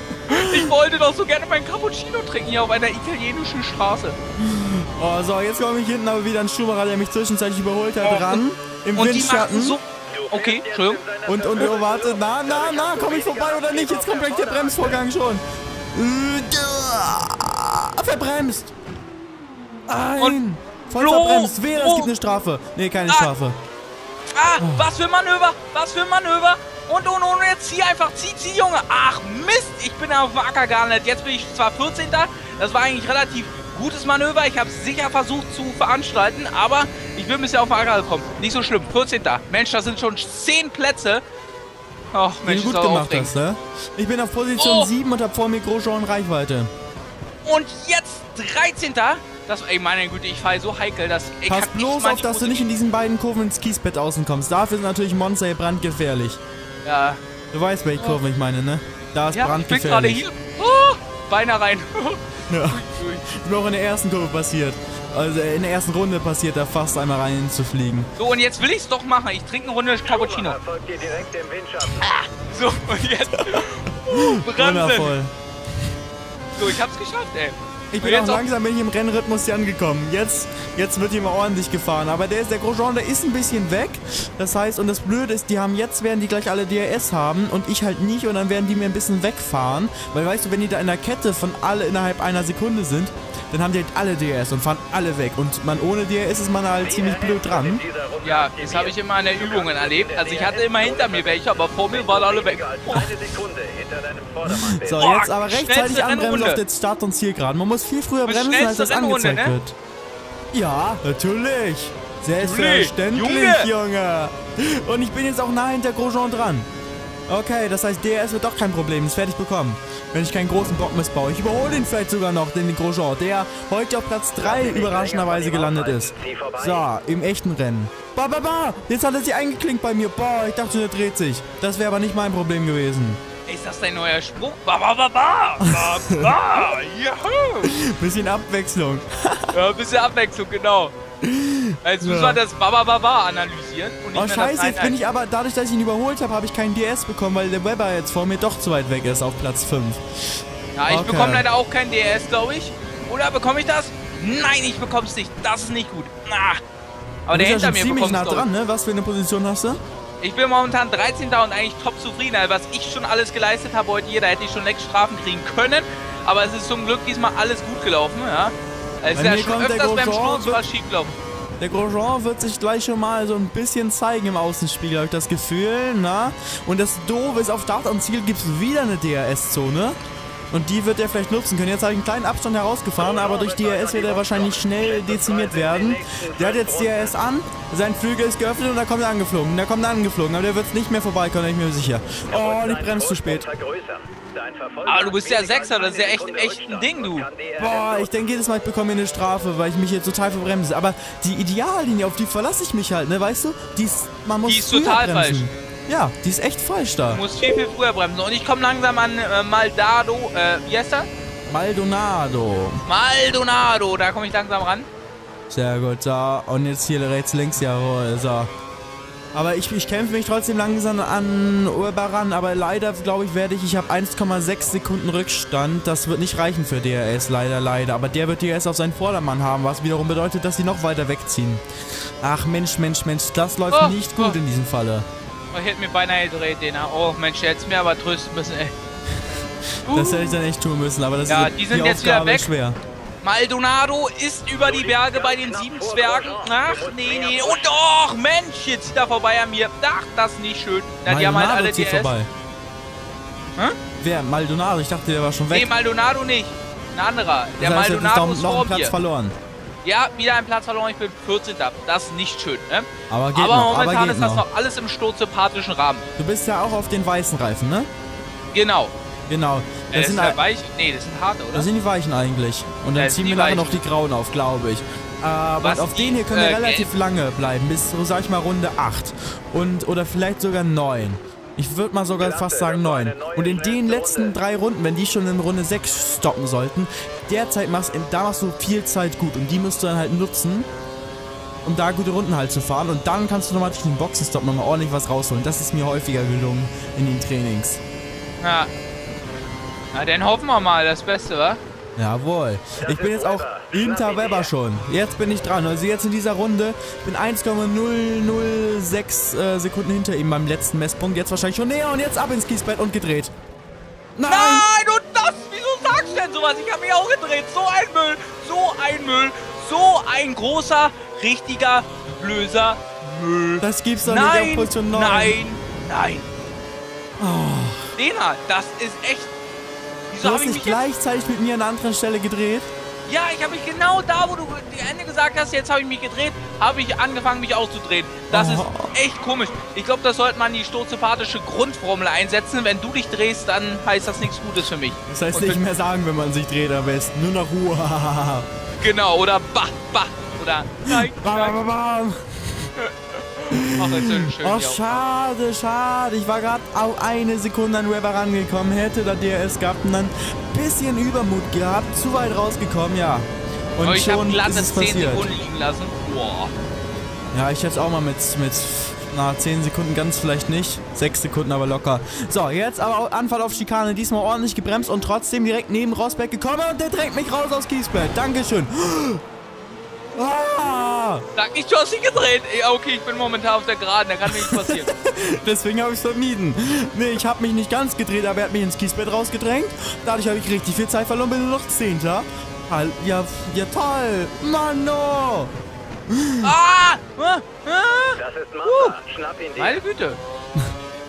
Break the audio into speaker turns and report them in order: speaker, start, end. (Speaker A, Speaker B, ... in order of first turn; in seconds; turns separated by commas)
Speaker A: 0.3-0.7, Speaker B: 0.3-4.2, Speaker A: 4.4-9.8, Speaker B: 8.0-8.4, Speaker B: 8.9-11.0, Speaker C: 10.1-15.0, Speaker A: 11.2-15.4, Speaker A: 15.9-18.7, Speaker A: 19.9-23.6, Speaker B: 20.1-20.4, Speaker B: 20.9-22.1, Speaker B: 24.3-41.2, Speaker A: 24.6-24.9, Speaker B: 42.1-43.3, Speaker A: 42.4-46.7, Speaker B: 44.6-44.9, Speaker B: 47.4-52.7, Speaker A: 51.5-56.4, Speaker B: 56.8-57.2, Speaker A: 57.5-60.2, Speaker B: 59.3-63.3, Speaker A: 62.5-68.1, Speaker B: 68.2-70.6, Speaker C: 70.0-72.0, Speaker B: 71.8-75.2, Speaker A: 73.4-75.3, Speaker B: 76.6-78.4, Speaker A: 77.9-97.8, Speaker C: 96.8-105.1, Speaker B: 98.2-103.1, Speaker A: 104.5-109.7, Speaker B: 104.9-106.6, Speaker B: 108.2-109.5, Speaker A: 110.5-116.7, Speaker B: 112.4-113.7, Speaker A: 117.3-133.2, Speaker C: 124.4-126.9, Speaker B: 133.5-137.7, Speaker A: 135.6-136.5, Speaker A: 137.6-139.5, Speaker B: 139.5-140.9, Speaker A: 141.2-142.4, Speaker B: 141.8-145.0, Speaker A: 144.1-150.0, Speaker B: 150.8-156.6, Speaker A: 150.9-151.4, Speaker B: 157.3-158.5, Speaker A: 157.3-159.8, Speaker B: 160.2-171.2, Speaker A: 169.2-170.6, Speaker A: 171.6-180.0, Speaker A: 180.5-193.4, Speaker C: 183.0-187.1, Speaker C: 192.3-198.1, Speaker B: 194.8-197.3, Speaker A: 197.6-207.2, Speaker B: 204.4-205.4, Speaker B: 207.1-211.1, Speaker A: 211.5-212.8, Speaker B: 212.8-214.9, Speaker A: 215.5-218.5, Speaker A: 219.3-231.6, Speaker A: 232.2-235.1, Speaker B: 233.7-234.3, Speaker B: 235.5-238.7, Speaker B: 239.8-240.4, Speaker A: 239.9-242.8, Speaker B: 241.3-242.5, Speaker B: 243.2-252.1, Speaker C: 244.6-247.7, Speaker A: 251.1-252.3, Speaker A: 254.0-255.7, Speaker B: 255.5-258.9, Speaker A: 257.6-259.3, Speaker B: 259.8-266.1, Speaker A: 263.1-264.4, Speaker A: 266.2-267.9, Speaker B: 268.5-268.9, Speaker A: 269.3-270.4, Speaker B: 269.9-271.7, Speaker A: 271.5-290.7, Speaker B: 272.9-273.8, Speaker B: 275.6-276.9, Speaker C: 282.2-284.3, Speaker A: 291.6-297.8, Speaker B: 298.4-298.7, Speaker B: 299.9-301.6, Speaker A: 302.0-313.3, Speaker C: 302.8-304.5, Speaker A: 314.1-314.7, Speaker B: 314.2-326.3, Speaker A: 323.6-325.4, Speaker A: 327.2-327.9, Speaker B: 327.9-329.3, Speaker B: 330.1-330.8, Speaker A: 330.2-332.7, Speaker B: 333.1-345.6, Speaker A: 338.3-338.9, Speaker A: 345.1-348.5, Speaker B: 348.8-351.6, Speaker A: 350.9-352.2, Speaker B: 352.8-355.0, Speaker A: 353.5-365.3, Speaker B: 363.8-366.5, Speaker A: 367.3-379.2, Speaker A: 380.1-381.2, Speaker B: 381.4-384.9, Speaker A: 384.2-395.5, Speaker A: 396.1-396.5, Speaker B: 396.4-399.0, Speaker C: 398.2-399.8, Speaker B: 399.6-400.2